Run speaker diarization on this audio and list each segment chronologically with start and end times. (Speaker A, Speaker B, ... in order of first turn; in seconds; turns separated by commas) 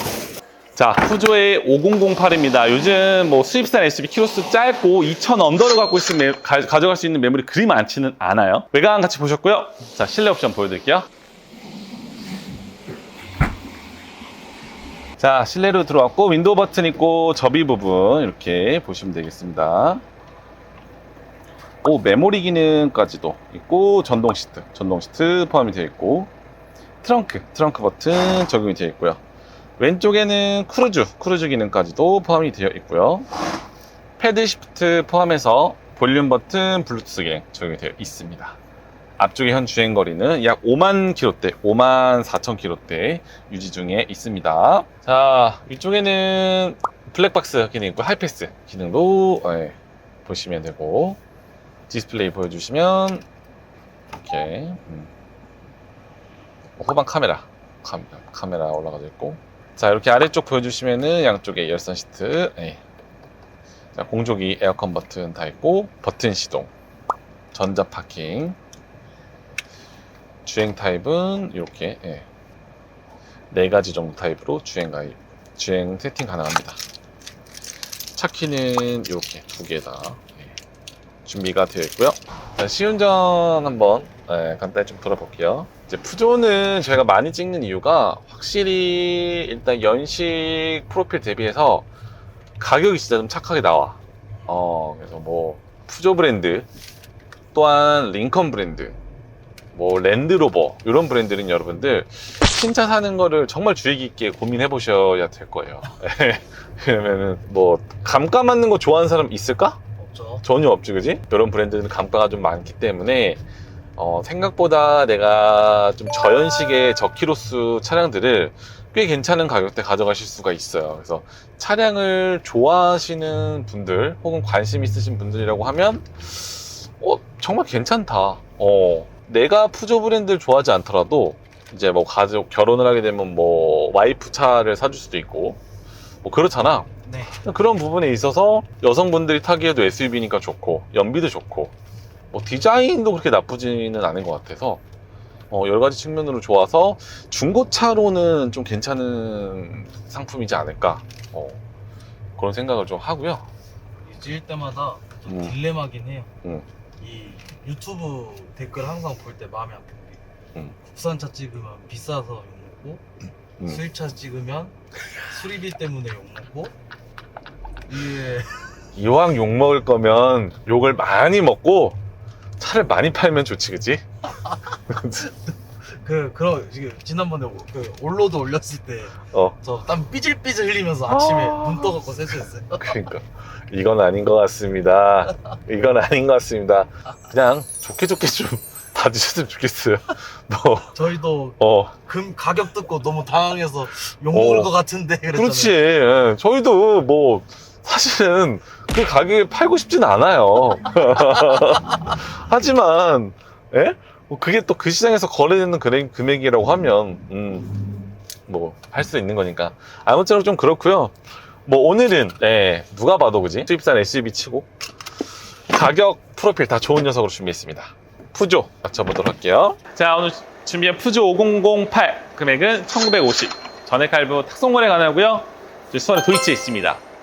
Speaker A: 0.8-11.1, Speaker A: 15.2-20.0, Speaker A: 21.8-26.3, Speaker A: 27.0-29.2, Speaker A: 29.8-33.3, Speaker A: 34.2-38.6, Speaker A: 39.2-51.2, Speaker A: 51.9-53.2, Speaker A: 54.1-55.1, Speaker A: 56.8-62.8, Speaker A: 64.0-66.7, Speaker A: 67.5-68.6, Speaker A: 70.5-72.3, Speaker A: 73.5-76.8, Speaker A: 78.2-80.5, Speaker A: 81.2-91.9, Speaker A: 92.6-96.7, Speaker A: 97.5-99.0, Speaker A: 99.7-109.8, Speaker B: 110.0-110.4, Speaker A: 110.4-113.4, Speaker A: 114.0-135.6, Speaker A: 136.2-141.7, Speaker B: 137.1-137.4, Speaker A: 142.3-144.8, Speaker A: 145.5-151.6, Speaker A: 152.4-153.5, Speaker B: 154.0-156.3, Speaker A: 155.3-155.6, Speaker B: 157.0-160.2, Speaker B: 160.8-163.0, Speaker B: 163.6-166.8, Speaker B: 167.9-168.7, Speaker A: 169.0-172.0, Speaker A: 172.6-175.3, Speaker B: 175.9-182.9, Speaker A: 181.1-182.0, Speaker A: 182.7-190.9, Speaker B: 190.9-195.8, Speaker A: 191.6-191.9, Speaker A: 194.3-194.7, Speaker A: 195.3-207.8, Speaker A: 208.5-211.1, Speaker A: 211.7-214.7, Speaker A: 215.7-227.0